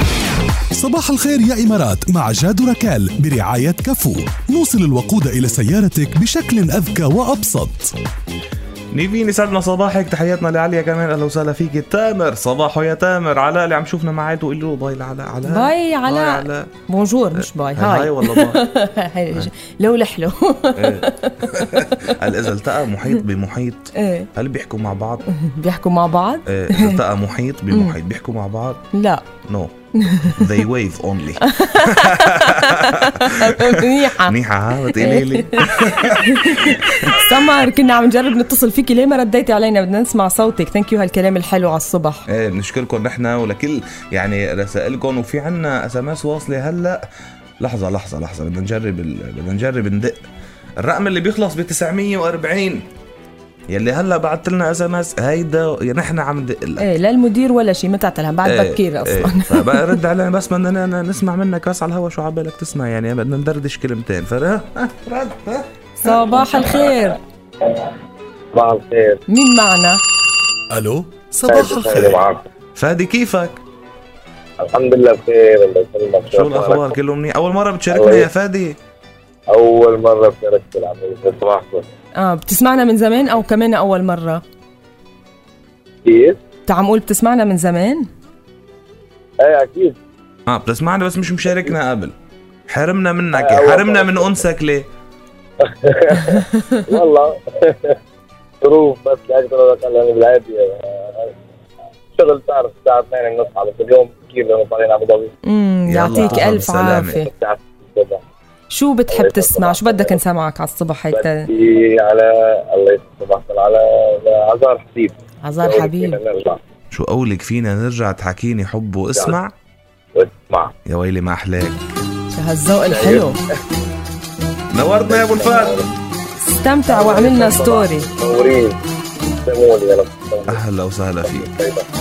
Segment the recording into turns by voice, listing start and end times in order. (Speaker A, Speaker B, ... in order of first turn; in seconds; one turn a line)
Speaker A: 0.7-7.9
Speaker B: 8.9-16.7
Speaker C: 15.4-22.2
Speaker B: 17.4-18.6
Speaker B: 20.8-25.2
Speaker C: 23.9-24.3
Speaker C: 25.2-27.0
Speaker B: 26.5-28.8
Speaker C: 28.9-29.2
Speaker B: 29.5-37.3
Speaker C: 29.9-30.5
Speaker C: 31.4-42.2
Speaker B: 42.3-47.1
Speaker B: 47.6-50.2
Speaker B: 50.8-52.9
Speaker B: 53.7-56.9
Speaker C: 56.8-60.0
Speaker B: 58.4-66.2
Speaker C: 66.0-67.2
Speaker D: 68.5-69.2
Speaker C: 69.3-70.0
Speaker A: 70.7-72.0
Speaker D: 71.5-72.4
Speaker B: 71.9-72.2
Speaker B: 72.8-73.6
Speaker D: 74.6-77.0
Speaker B: 76.3-78.8
Speaker D: 77.9-78.3
Speaker D: 79.5-81.8
Speaker C: 82.2-84.4
Speaker D: 86.0-86.4
Speaker C: 86.7-88.0
Speaker D: 89.4-90.0
Speaker B: 90.5-92.1
Speaker D: 91.5-91.7
Speaker B: 92.7-94.9
Speaker D: 93.3-94.4
Speaker D: 95.6-98.0
Speaker D: 98.6-101.3
Speaker D: 102.1-105.3
Speaker C: 105.4-107.3
Speaker B: 105.9-107.2
Speaker D: 106.1-106.4
Speaker D: 107.1-108.2
Speaker C: 108.7-111.5
Speaker D: 109.1-110.2
Speaker D: 111.1-116.6
Speaker C: 115.4-116.2
Speaker B: 116.9-119.5
Speaker D: 120.1-120.7
Speaker B: 120.8-121.8
Speaker C: 122.3-123.4
Speaker D: 122.9-123.3
Speaker B: 124.7-125.8
Speaker D: 125.1-125.9
Speaker C: 126.5-128.1
Speaker D: 126.9-128.8
Speaker D: 129.4-130.6
Speaker B: 130.5-131.5
Speaker D: 131.2-131.8